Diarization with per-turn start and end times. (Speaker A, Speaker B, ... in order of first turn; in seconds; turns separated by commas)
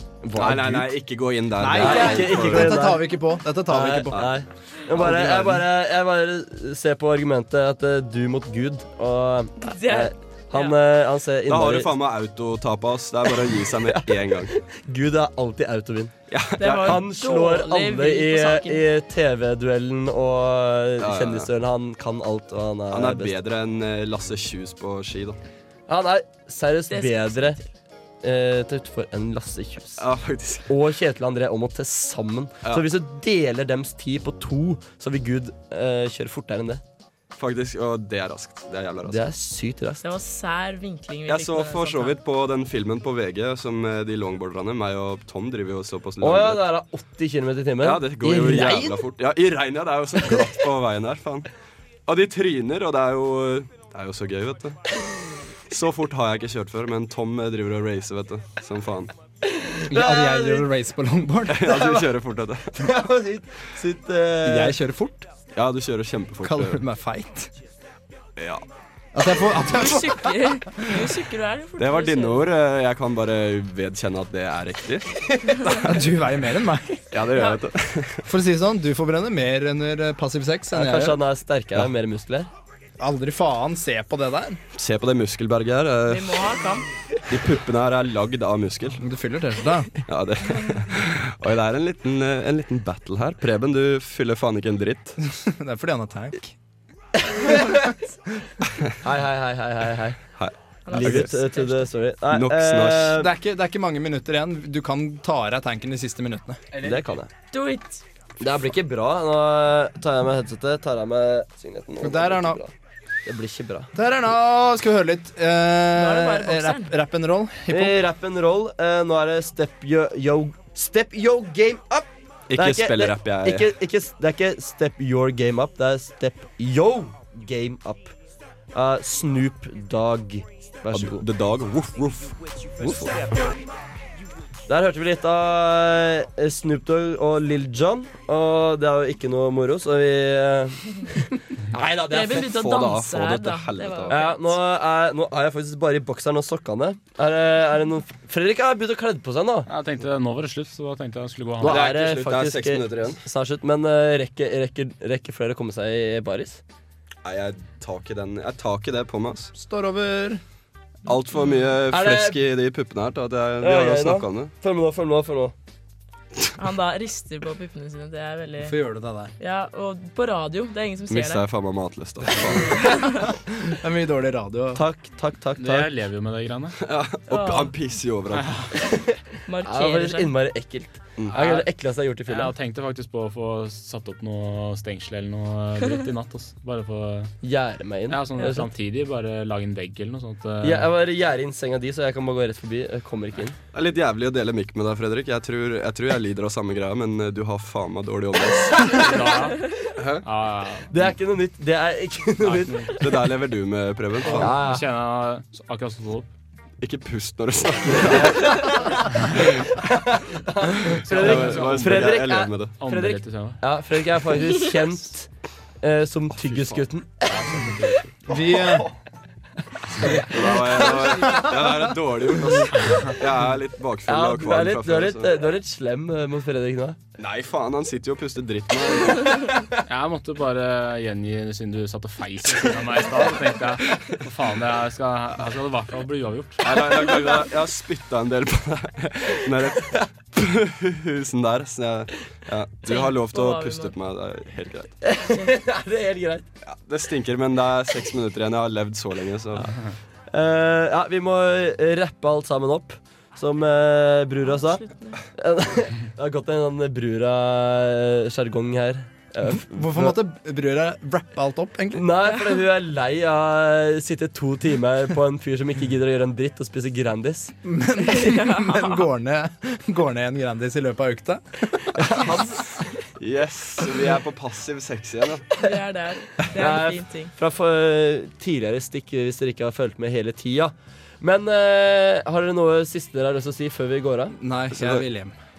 Speaker A: 0.2-0.9, Speaker B: 0.3-2.9, Speaker C: 1.6-4.3, Speaker A: 1.7-11.9, Speaker B: 4.1-4.4, Speaker B: 5.0-5.6, Speaker D: 9.6-10.8, Speaker B: 11.5-14.5, Speaker A: 13.9-16.1, Speaker B: 16.3-17.1, Speaker D: 16.6-18.8, Speaker A: 16.7-23.3, Speaker B: 21.0-21.5, Speaker B: 22.9-25.4, Speaker A: 25.9-27.6, Speaker D: 26.9-27.7, Speaker A: 28.2-30.0, Speaker B: 30.0-30.7, Speaker A: 30.7-36.8, Speaker B: 37.4-39.3, Speaker A: 39.1-40.0, Speaker D: 40.0-42.1, Speaker B: 41.3-46.7, Speaker A: 46.2-49.0, Speaker B: 47.8-51.5, Speaker B: 52.1-55.0, Speaker B: 55.7-59.1, Speaker A: 59.6-60.7, Speaker C: 59.9-61.7, Speaker B: 61.5-62.8, Speaker A: 61.6-62.1, Speaker A: 62.7-64.8, Speaker C: 64.4-65.3, Speaker B: 65.5-66.8, Speaker C: 66.4-67.5, Speaker B: 68.4-68.6, Speaker C: 69.1-71.0, Speaker D: 69.7-72.5, Speaker B: 71.8-76.0, Speaker C: 75.7-77.1, Speaker B: 77.1-78.2, Speaker D: 77.3-77.6, Speaker C: 78.2-81.2, Speaker A: 80.7-82.5, Speaker C: 83.0-84.6, Speaker B: 84.7-86.6, Speaker D: 86.1-86.9, Speaker B: 87.3-89.0, Speaker C: 89.0-90.0, Speaker B: 90.0-95.2, Speaker C: 95.2-96.5, Speaker A: 97.2-97.8, Speaker A: 99.0-100.2, Speaker B: 100.3-101.3, Speaker D: 100.9-101.9, Speaker A: 100.9-103.3, Speaker B: 102.3-103.2, Speaker C: 103.2-106.6, Speaker A: 106.7-107.3, Speaker D: 107.5-108.0, Speaker A: 108.4-112.7, Speaker C: 112.0-112.6, Speaker A: 113.2-113.9, Speaker C: 113.9-118.0, Speaker D: 115.9-116.9, Speaker A: 117.7-128.1, Speaker B: 122.5-123.8, Speaker A: 128.7-131.2, Speaker B: 130.9-133.3, Speaker A: 134.7-142.5, Speaker D: 142.1-144.4, Speaker B: 142.3-144.2, Speaker A: 144.1-149.7, Speaker E: 149.7-151.9, Speaker A: 151.6-156.6, Speaker B: 151.6-153.2, Speaker B: 157.2-159.5, Speaker C: 159.5-160.4, Speaker B: 161.1-164.5, Speaker A: 161.9-162.4, Speaker A: 163.6-165.5, Speaker D: 166.6-168.7, Speaker C: 168.6-169.3, Speaker D: 169.4-171.4, Speaker B: 171.1-173.0, Speaker D: 172.8-173.2, Speaker C: 173.5-174.8, Speaker A: 174.7-175.9, Speaker E: 175.6-176.8, Speaker B: 176.8-178.9, Speaker D: 177.3-177.7, Speaker E: 178.3-178.7, Speaker D: 179.5-180.3, Speaker A: 179.6-182.5, Speaker E: 181.3-181.7, Speaker E: 182.2-187.3, Speaker A: 187.4-188.6, Speaker E: 188.1-190.9, Speaker A: 190.6-193.6, Speaker B: 193.7-199.3, Speaker E: 199.0-199.6, Speaker B: 199.9-200.2, Speaker E: 200.2-200.9, Speaker A: 200.9-203.0, Speaker E: 202.4-202.9, Speaker B: 203.0-204.6, Speaker E: 204.2-206.3, Speaker A: 204.3-204.8, Speaker B: 206.8-208.9, Speaker A: 208.0-208.9, Speaker A: 209.7-215.3, Speaker E: 211.0-212.2, Speaker B: 211.1-212.7, Speaker E: 212.8-213.6, Speaker A: 215.8-217.7, Speaker B: 216.4-216.8, Speaker E: 217.3-218.1, Speaker C: 218.3-218.9, Speaker A: 220.0-220.9, Speaker B: 220.0-225.3, Speaker C: 221.2-221.8, Speaker A: 224.1-227.0, Speaker B: 227.2-229.6, Speaker E: 229.8-236.6, Speaker B: 236.6-245.0, Speaker D: 242.8-243.9, Speaker A: 245.0-246.4, Speaker D: 245.3-245.6, Speaker B: 246.6-249.8, Speaker A: 250.3-254.8, Speaker D: 254.5-255.2, Speaker A: 255.4-260.2, Speaker C: 259.4-262.3, Speaker A: 261.9-267.5, Speaker C: 267.6-271.9, Speaker D: 268.0-269.1, Speaker A: 271.9-272.9, Speaker B: 273.2-275.5, Speaker D: 275.6-277.3, Speaker A: 276.5-284.4, Speaker C: 284.3-285.4, Speaker B: 284.7-285.0